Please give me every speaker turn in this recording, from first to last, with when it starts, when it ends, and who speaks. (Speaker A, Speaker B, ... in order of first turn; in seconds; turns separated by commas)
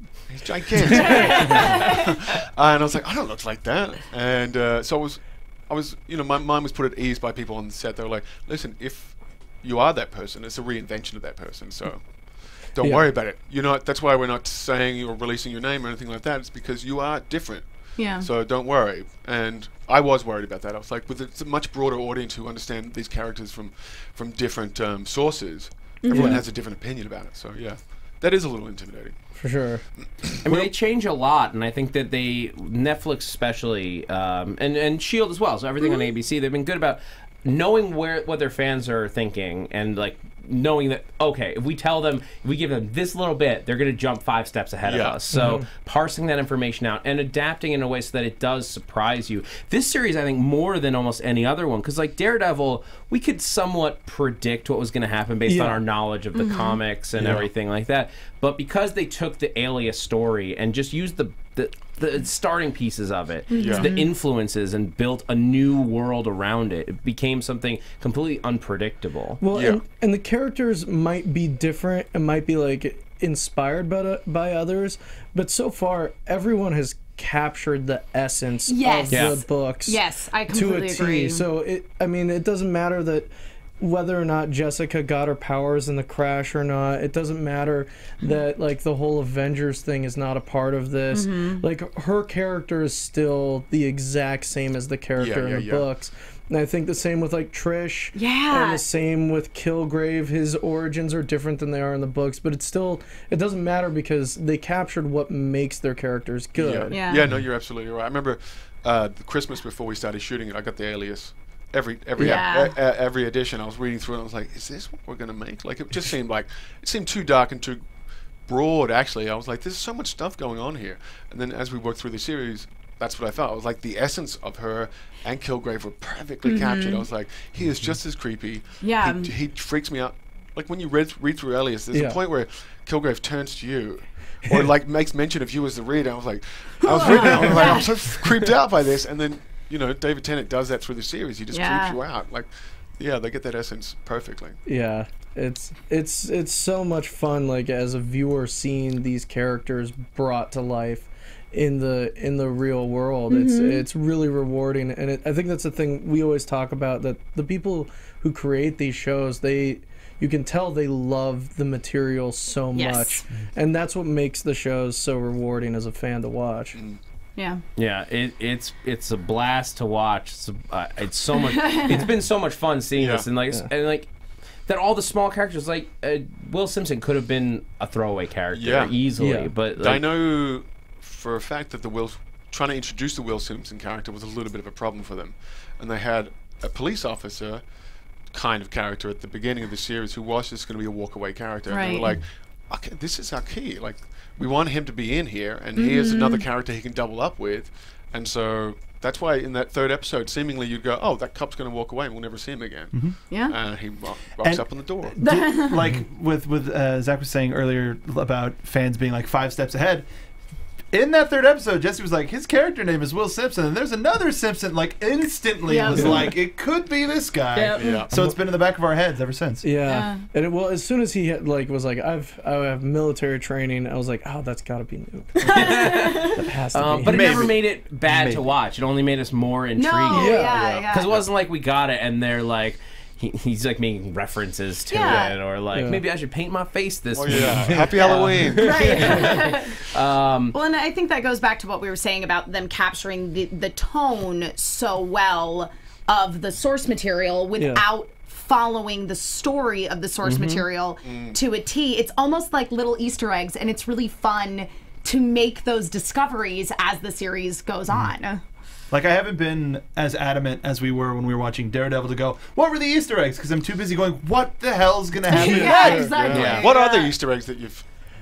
Speaker A: 0.3-30.6, Speaker B: 0.8-1.6, Speaker C: 0.9-2.2, Speaker B: 12.8-13.1, Speaker C: 17.9-18.3, Speaker C: 26.0-26.4, Speaker B: 26.1-26.4, Speaker B: 29.4-29.8, Speaker D: 30.4-69.4, Speaker A: 44.8-45.2, Speaker B: 45.3-45.6, Speaker B: 55.5-55.8, Speaker C: 56.3-56.8, Speaker E: 57.2-57.5, Speaker C: 63.5-64.1, Speaker A: 63.5-63.9, Speaker B: 69.4-83.3, Speaker A: 69.5-69.8, Speaker C: 78.7-81.4, Speaker D: 79.1-79.4, Speaker B: 83.8-107.0, Speaker C: 91.1-91.6, Speaker A: 95.2-95.9, Speaker C: 98.1-98.8, Speaker A: 106.5-144.6, Speaker C: 106.9-107.2, Speaker B: 112.2-112.4, Speaker C: 112.2-112.8, Speaker C: 126.4-127.0, Speaker C: 128.8-129.3, Speaker B: 131.9-132.2, Speaker C: 136.8-137.8, Speaker B: 137.0-137.9, Speaker C: 141.5-142.0, Speaker B: 144.6-166.8, Speaker C: 153.3-153.8, Speaker C: 162.7-163.2, Speaker A: 166.7-167.0, Speaker C: 167.4-167.6, Speaker D: 167.8-174.1, Speaker C: 171.3-172.1, Speaker A: 172.9-173.2, Speaker D: 174.6-180.0, Speaker A: 178.5-179.1, Speaker B: 179.2-179.5, Speaker A: 179.7-205.2, Speaker C: 191.7-192.2, Speaker C: 195.8-196.4, Speaker E: 202.9-203.2, Speaker C: 203.3-203.6, Speaker E: 204.4-210.1, Speaker C: 205.2-205.8, Speaker E: 210.9-219.7, Speaker C: 215.6-216.4, Speaker B: 215.9-216.3, Speaker C: 217.5-218.1, Speaker A: 217.7-218.1, Speaker B: 218.1-218.4, Speaker B: 219.6-227.3, Speaker C: 219.8-220.2, Speaker C: 225.4-226.4, Speaker D: 225.5-240.5, Speaker E: 227.0-228.5, Speaker C: 229.8-231.1, Speaker B: 230.1-230.6, Speaker A: 230.2-231.2, Speaker C: 234.9-235.3, Speaker B: 235.7-236.0, Speaker A: 237.1-239.4, Speaker B: 237.4-237.8, Speaker C: 238.0-239.9, Speaker C: 240.5-258.4, Speaker B: 247.6-247.8, Speaker D: 250.2-250.7, Speaker A: 251.0-251.4, Speaker E: 257.9-258.1, Speaker E: 258.9-266.2, Speaker C: 265.3-267.1, Speaker B: 265.3-266.1, Speaker A: 265.6-267.9, Speaker D: 266.3-266.7